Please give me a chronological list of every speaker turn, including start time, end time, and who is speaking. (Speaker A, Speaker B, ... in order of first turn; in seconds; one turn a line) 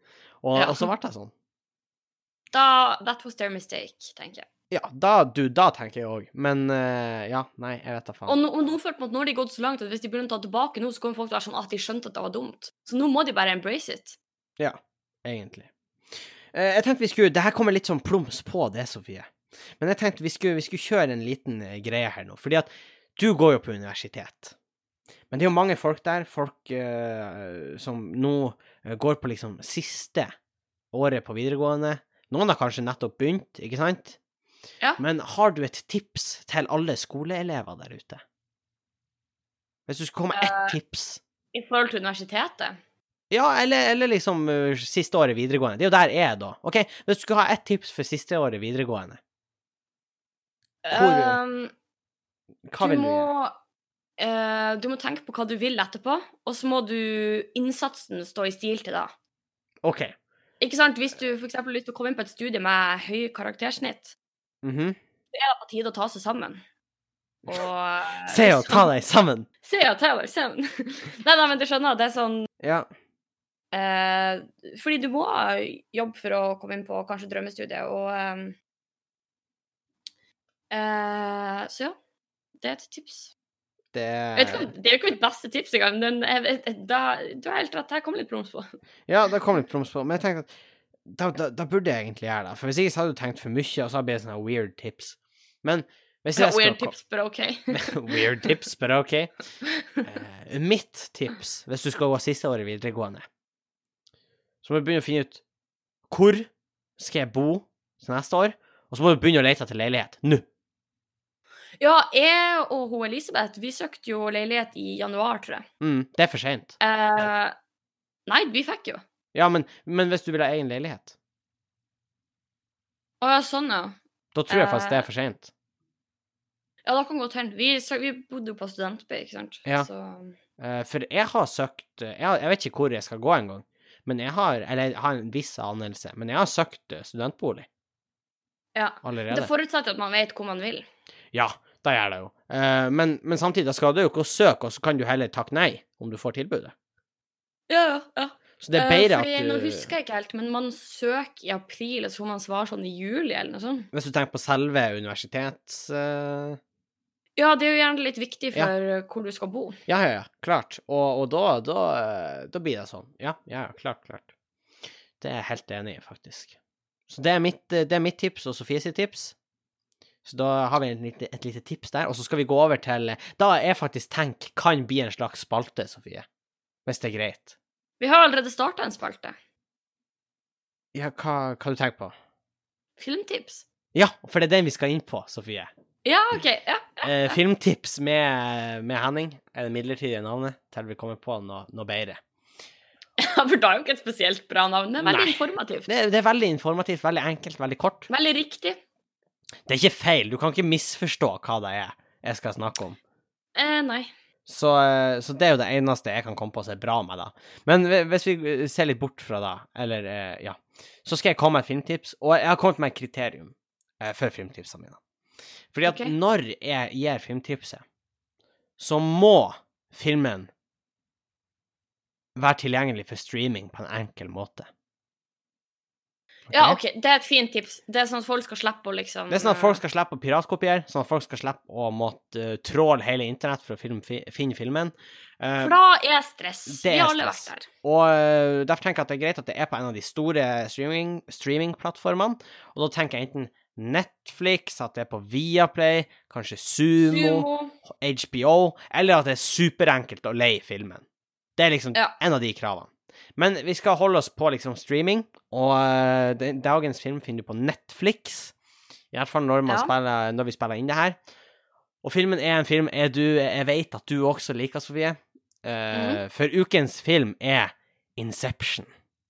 Speaker A: 0.4-1.3
Speaker B: 0.6-0.9
Speaker B: 2.5-4.5
Speaker A: 4.7-8.4
Speaker B: 8.3-14.2
Speaker A: 14.6-15.7
Speaker A: 16.5-24.6
Speaker A: 25.3-30.3
Speaker A: 30.9-34.2
Speaker A: 35.0-38.2
Speaker A: 39.9-41.2
Speaker B: 40.3-40.8
Speaker B: 41.5-42.8
Speaker A: 43.3-49.2
Speaker B: 50.8-51.7
Speaker A: 50.9-51.4
Speaker A: 52.7-53.3
Speaker B: 52.8-53.5
Speaker B: 54.2-59.1
Speaker A: 59.8-60.1
Speaker B: 60.6-64.1
Speaker A: 64.6-65.0
Speaker B: 65.3-66.6
Speaker B: 67.5-68.9
Speaker A: 68.3-69.5
Speaker B: 69.6-72.5
Speaker A: 72.6-72.9
Speaker B: 73.7-78.5
Speaker B: 80.7-82.0
Speaker B: 82.6-83.3
Speaker A: 83.9-84.7
Speaker B: 84.4-88.7
Speaker A: 89.1-90.5
Speaker A: 91.1-97.0
Speaker B: 96.4-98.5
Speaker A: 97.7-99.3
Speaker B: 99.7-100.0
Speaker A: 100.0-103.3
Speaker A: 104.6-105.4
Speaker A: 106.1-110.5
Speaker B: 111.8-115.7
Speaker A: 115.8-116.8
Speaker B: 116.8-117.5
Speaker B: 118.3-119.0
Speaker A: 119.3-121.1
Speaker B: 123.2-124.0
Speaker A: 124.3-125.5
Speaker B: 124.5-125.1
Speaker B: 126.8-130.4
Speaker A: 130.6-137.7
Speaker B: 138.8-140.9
Speaker A: 139.0-139.5
Speaker A: 141.3-146.7
Speaker B: 147.7-153.9
Speaker A: 148.6-149.9
Speaker A: 153.9-156.6
Speaker B: 157.4-159.8
Speaker A: 159.9-164.3
Speaker A: 165.2-166.6
Speaker A: 167.1-169.3
Speaker A: 170.2-176.3
Speaker A: 176.9-177.6
Speaker B: 178.0-179.3
Speaker A: 180.9-182.1
Speaker B: 183.0-183.7
Speaker A: 183.9-185.7
Speaker B: 186.1-187.4
Speaker A: 187.0-192.2
Speaker B: 193.2-195.9
Speaker A: 195.0-198.1
Speaker B: 198.1-198.8
Speaker A: 199.7-203.0
Speaker B: 203.6-204.1
Speaker A: 204.5-215.0
Speaker A: 215.7-217.8
Speaker B: 215.9-216.1
Speaker A: 218.8-220.5
Speaker A: 222.4-224.7
Speaker A: 226.5-226.8
Speaker B: 226.5-229.8
Speaker A: 229.3-235.8
Speaker B: 235.6-237.7
Speaker A: 236.7-251.0
Speaker B: 247.0-247.7
Speaker A: 251.6-258.5
Speaker A: 259.1-261.2
Speaker B: 259.7-259.9
Speaker A: 262.0-268.9
Speaker B: 265.9-266.2